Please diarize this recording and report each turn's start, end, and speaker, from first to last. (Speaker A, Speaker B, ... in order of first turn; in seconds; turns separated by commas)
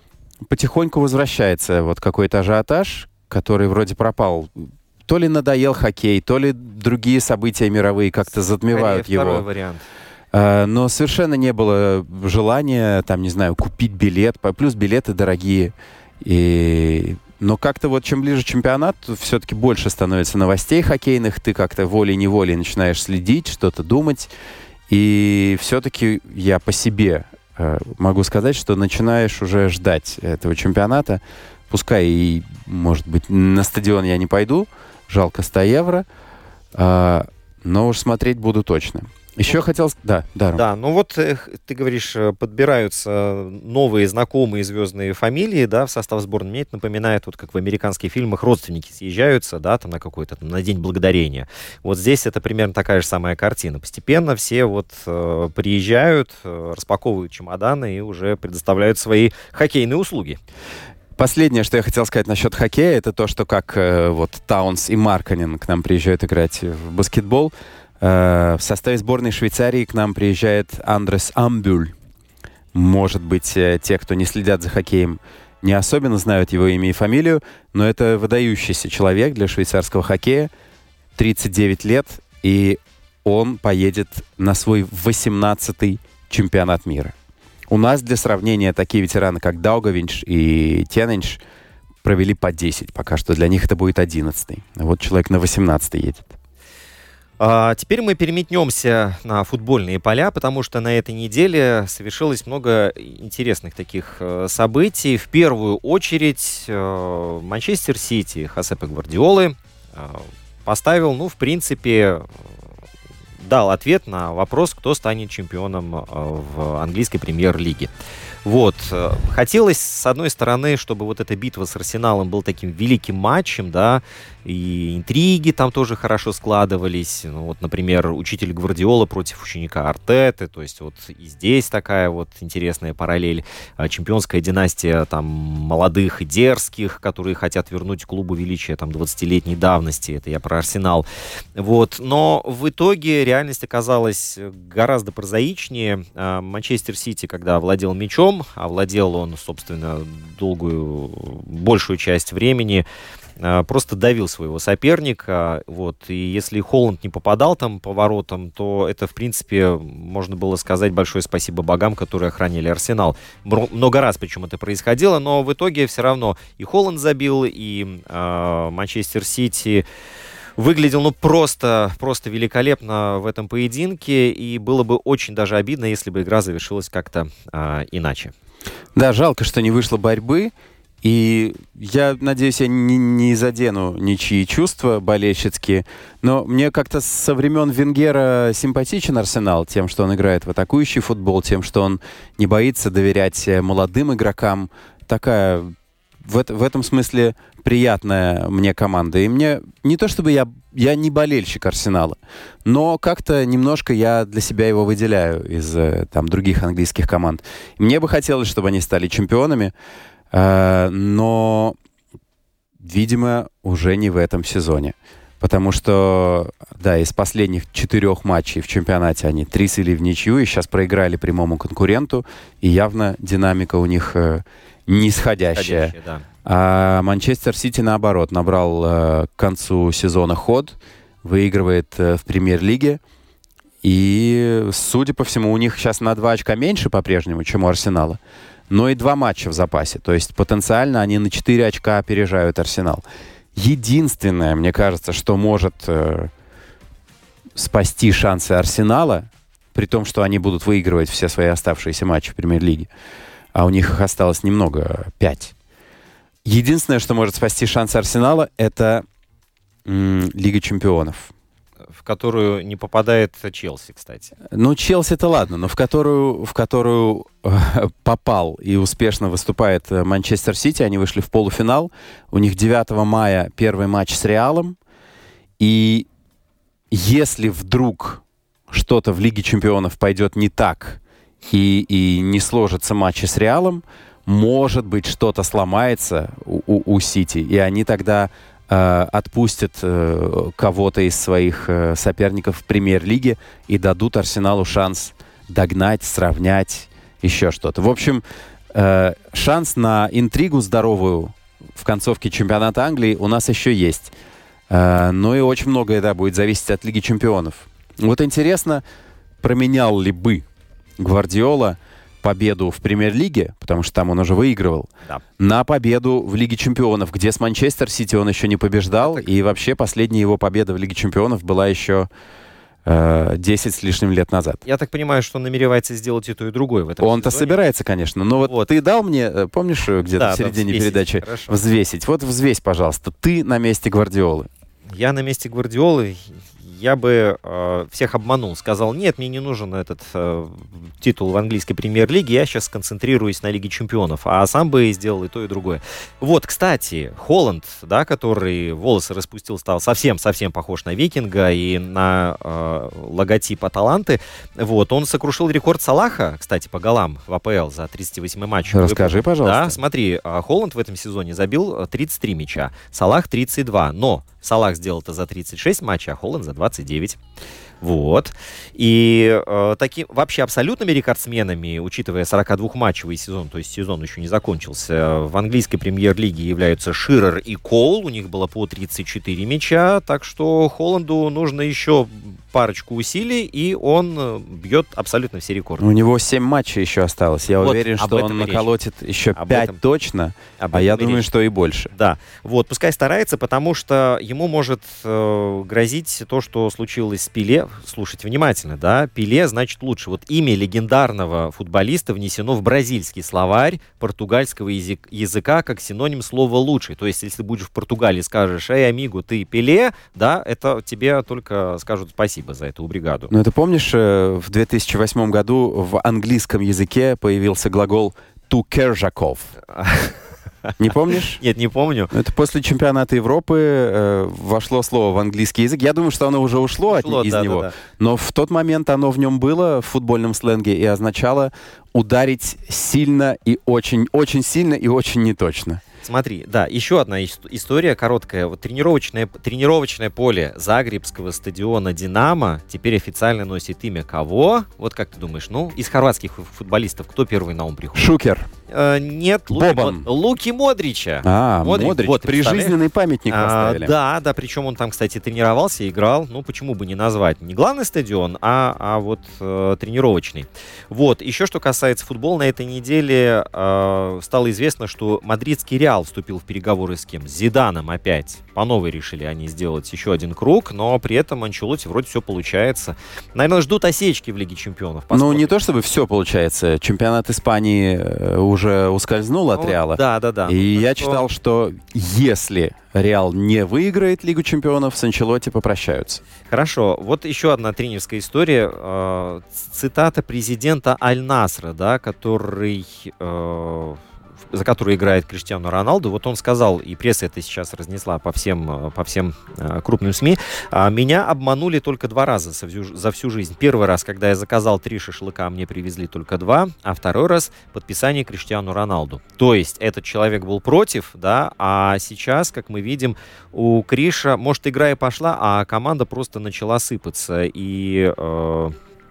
Speaker A: 0.5-9.4, Speaker B: 8.7-9.8, Speaker A: 10.3-24.3, Speaker A: 24.9-36.0, Speaker A: 36.7-40.6, Speaker B: 40.5-60.4, Speaker A: 61.2-71.9, Speaker A: 72.7-80.5, Speaker A: 81.2-87.1, Speaker A: 87.7-91.4, Speaker A: 92.0-96.3, Speaker B: 97.4-112.3, Speaker B: 113.4-117.9, Speaker B: 118.4-141.1, Speaker B: 141.6-152.8, Speaker B: 153.4-169.8, Speaker B: 170.6-178.3, Speaker A: 178.9-209.7, Speaker A: 210.3-211.8, Speaker A: 212.8-225.9, Speaker B: 225.5-226.2, Speaker A: 226.4-233.0, Speaker A: 233.8-238.2, Speaker A: 238.7-243.0, Speaker A: 243.5-246.3, Speaker A: 247.5-252.9, Speaker A: 253.5-255.5, Speaker A: 256.4-259.0, Speaker A: 259.8-261.3, Speaker B: 261.9-264.3, Speaker A: 264.5-274.8, Speaker A: 275.6-276.1, Speaker A: 276.9-304.1, Speaker A: 304.7-308.8, Speaker A: 309.4-310.4, Speaker A: 311.0-322.1, Speaker B: 319.0-319.3, Speaker A: 322.8-324.6, Speaker B: 324.6-327.6, Speaker A: 327.0-334.5, Speaker B: 328.4-328.7, Speaker B: 330.0-331.6, Speaker B: 334.9-367.2, Speaker A: 358.7-359.8, Speaker B: 367.8-385.8, Speaker A: 385.8-391.9, Speaker B: 387.6-388.7, Speaker B: 389.3-389.8, Speaker B: 390.6-391.3, Speaker B: 391.9-413.3, Speaker A: 413.3-419.5, Speaker B: 419.7-420.7, Speaker A: 420.8-421.4, Speaker B: 421.4-422.1, Speaker A: 422.1-435.8, Speaker B: 426.9-427.8, Speaker B: 436.0-448.1, Speaker A: 447.9-448.5, Speaker B: 448.7-452.7, Speaker A: 449.5-450.1, Speaker A: 451.2-453.9, Speaker B: 453.3-475.5, Speaker A: 475.1-486.2, Speaker B: 479.5-481.3, Speaker B: 486.5-494.0, Speaker B: 494.5-518.7